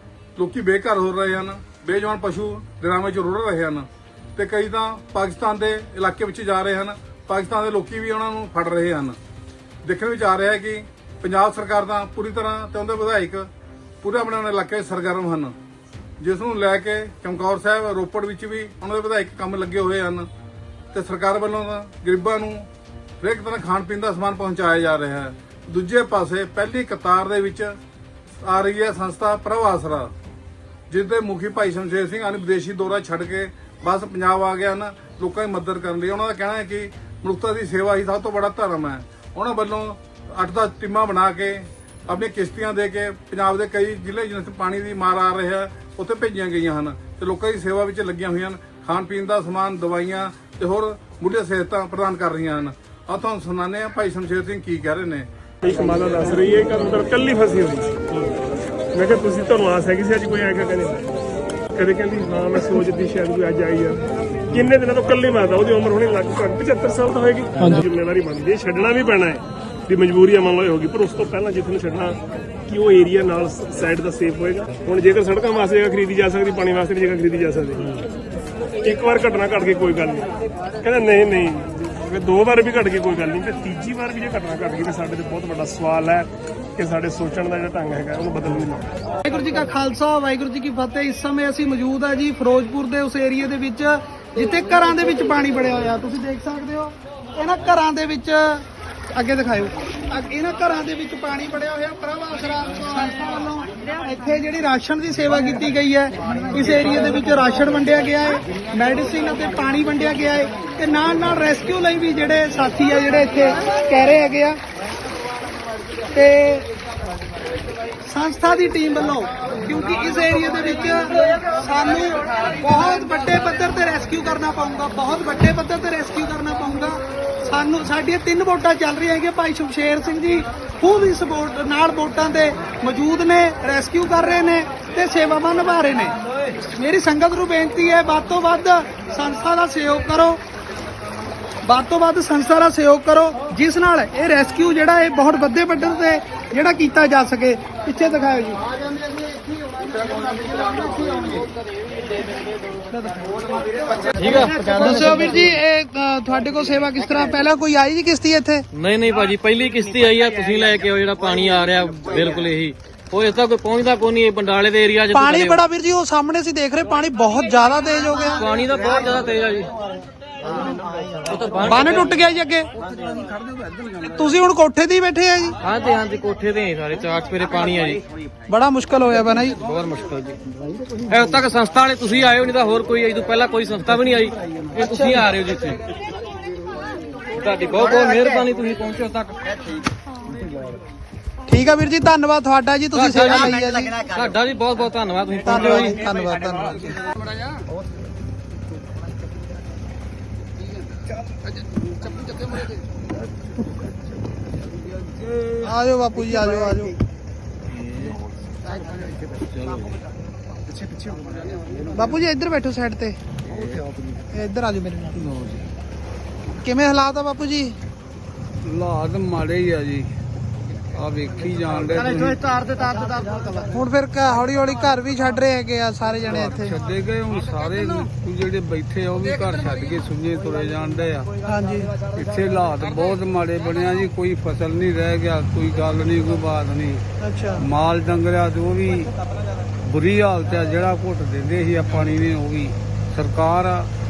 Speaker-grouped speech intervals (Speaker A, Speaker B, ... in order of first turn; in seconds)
Speaker A: 0.4-9.2, 9.8-13.4, 14.0-15.5, 16.2-20.3, 20.9-22.7, 23.2-27.7, 28.4-30.1, 30.9-55.3
Speaker B: 55.6-61.1, 61.7-78.0, 78.8-80.3, 80.8-88.9
Speaker C: 89.2-114.6, 116.1-116.7, 118.0-140.4, 141.6-148.6, 150.4-151.2, 154.4-158.7, 165.1-168.5, 171.6-172.7, 174.0-175.6, 178.5-179.6, 184.8-185.3, 191.5-194.0, 195.4-197.0, 205.6-206.9, 211.9-213.2, 214.3-215.2, 216.6-217.8, 223.7-226.8, 231.4-232.0, 237.2-237.7
Speaker D: 154.2-155.1, 158.7-165.6, 168.4-169.7, 171.2-172.2, 175.6-178.0, 179.6-180.4, 181.0-185.8, 187.3-189.4, 192.9-196.0
Speaker E: 209.6-209.9, 215.2-215.6, 218.6-220.1, 220.9-222.4, 226.2-231.3, 232.1-237.0, 237.6-239.1, 239.8-243.9